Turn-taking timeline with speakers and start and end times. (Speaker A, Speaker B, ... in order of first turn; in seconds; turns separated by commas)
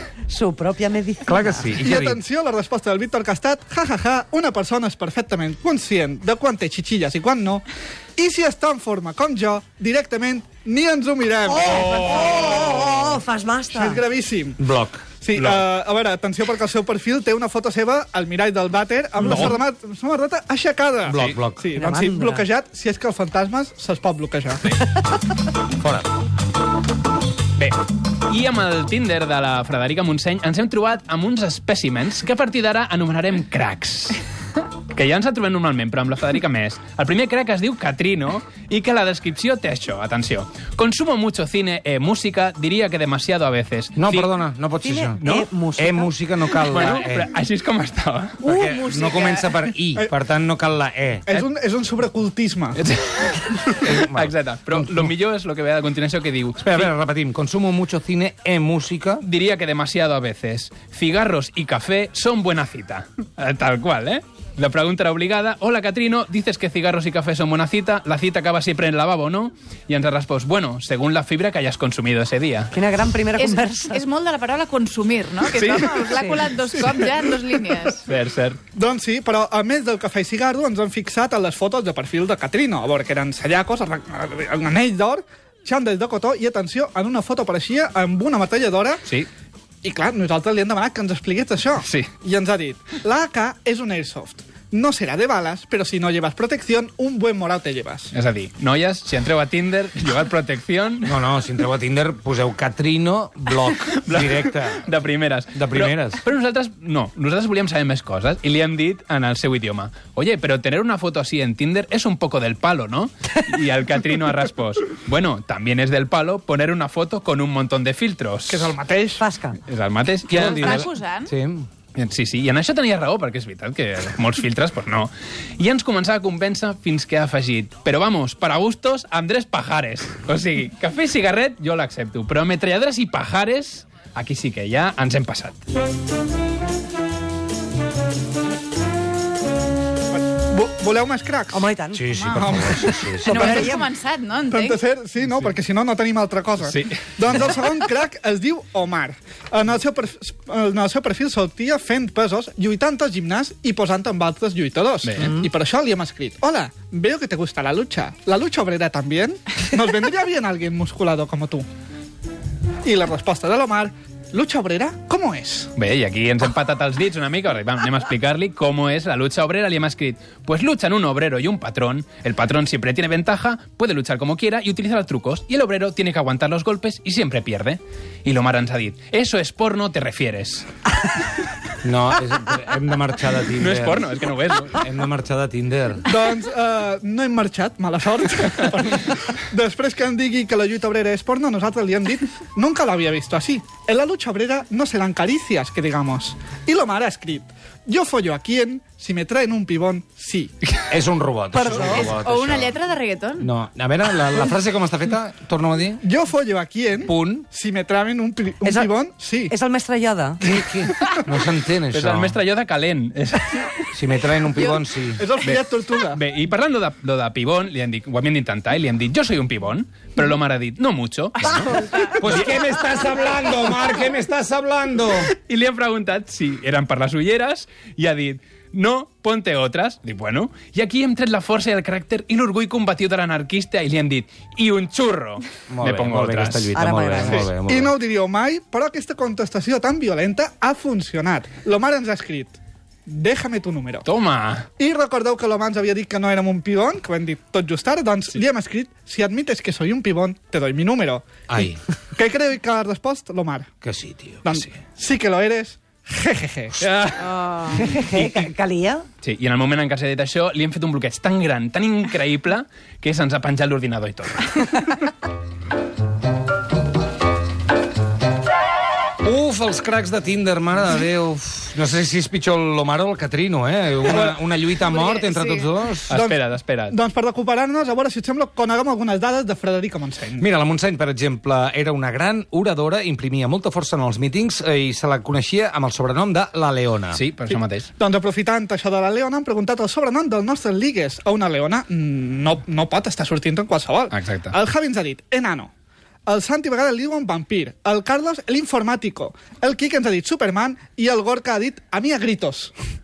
Speaker A: 0.3-1.8, Speaker B: 1.3-2.2, Speaker C: 1.8-7.7, Speaker C: 8.2-12.1, Speaker A: 11.5-14.0, Speaker D: 11.7-12.9, Speaker C: 13.7-14.6, Speaker B: 14.6-15.0, Speaker C: 15.2-24.8, Speaker D: 15.3-15.6, Speaker B: 21.1-21.6, Speaker D: 21.1-21.4, Speaker A: 21.7-22.5, Speaker B: 25.8-26.1, Speaker D: 27.6-34.2, Speaker D: 34.9-44.3, Speaker B: 44.0-45.2, Speaker A: 44.8-47.0, Speaker D: 45.2-45.5, Speaker B: 45.8-47.3, Speaker D: 46.7-48.4, Speaker B: 48.4-51.2, Speaker A: 48.5-48.8, Speaker E: 48.6-49.6, Speaker C: 51.3-52.8, Speaker D: 52.8-56.9, Speaker B: 53.8-54.3, Speaker B: 56.6-59.2, Speaker D: 59.2-72.8, Speaker A: 72.7-74.0, Speaker E: 73.4-78.0, Speaker D: 75.5-76.0, Speaker A: 76.1-76.5, Speaker C: 76.7-78.0, Speaker D: 78.0-78.6, Speaker C: 78.7-89.1, Speaker C: 89.8-98.1, Speaker D: 91.8-92.1, Speaker D: 98.1-101.2, Speaker B: 101.0-104.9, Speaker D: 103.6-118.7, Speaker B: 105.5-106.2, Speaker C: 118.5-119.2, Speaker A: 119.2-119.6, Speaker D: 119.7-120.9, Speaker E: 120.3-121.3, Speaker B: 120.3-121.7, Speaker D: 122.0-135.6, Speaker C: 140.1-141.6, Speaker A: 141.5-143.9, Speaker B: 141.9-143.7, Speaker C: 142.2-143.7, Speaker E: 143.2-144.8, Speaker C: 144.5-161.7, Speaker D: 146.6-147.6, Speaker D: 155.0-155.4, Speaker C: 162.8-165.7, Speaker D: 165.8-180.7, Speaker B: 181.8-184.1, Speaker D: 183.6-184.8, Speaker B: 184.8-186.1, Speaker C: 186.1-200.6, Speaker B: 200.9-202.7, Speaker A: 201.5-202.2, Speaker C: 201.6-202.1, Speaker E: 201.9-203.5, Speaker B: 203.4-206.0, Speaker C: 206.0-209.5, Speaker B: 207.1-207.4, Speaker A: 208.6-208.9, Speaker A: 209.5-210.4, Speaker B: 210.4-212.4, Speaker D: 211.9-213.7, Speaker B: 213.9-215.2, Speaker C: 215.2-216.2, Speaker D: 215.4-222.6, Speaker E: 221.7-222.2, Speaker B: 222.2-225.3, Speaker D: 225.3-236.8, Speaker B: 235.7-237.9, Speaker A: 236.8-237.5, Speaker C: 237.2-242.6, Speaker C: 243.1-244.1, Speaker D: 244.1-244.7, Speaker C: 244.8-253.7, Speaker B: 251.5-251.8, Speaker B: 253.8-254.7, Speaker C: 254.4-256.9, Speaker D: 256.8-258.4, Speaker A: 257.4-259.1, Speaker D: 259.2-265.0, Speaker B: 269.2-276.1, Speaker C: 274.0-274.4, Speaker E: 275.1-275.6, Speaker D: 276.1-277.0, Speaker C: 276.1-280.5, Speaker B: 280.4-287.2, Speaker D: 287.1-287.9, Speaker C: 287.5-295.7, Speaker D: 294.1-294.6, Speaker C: 296.3-302.7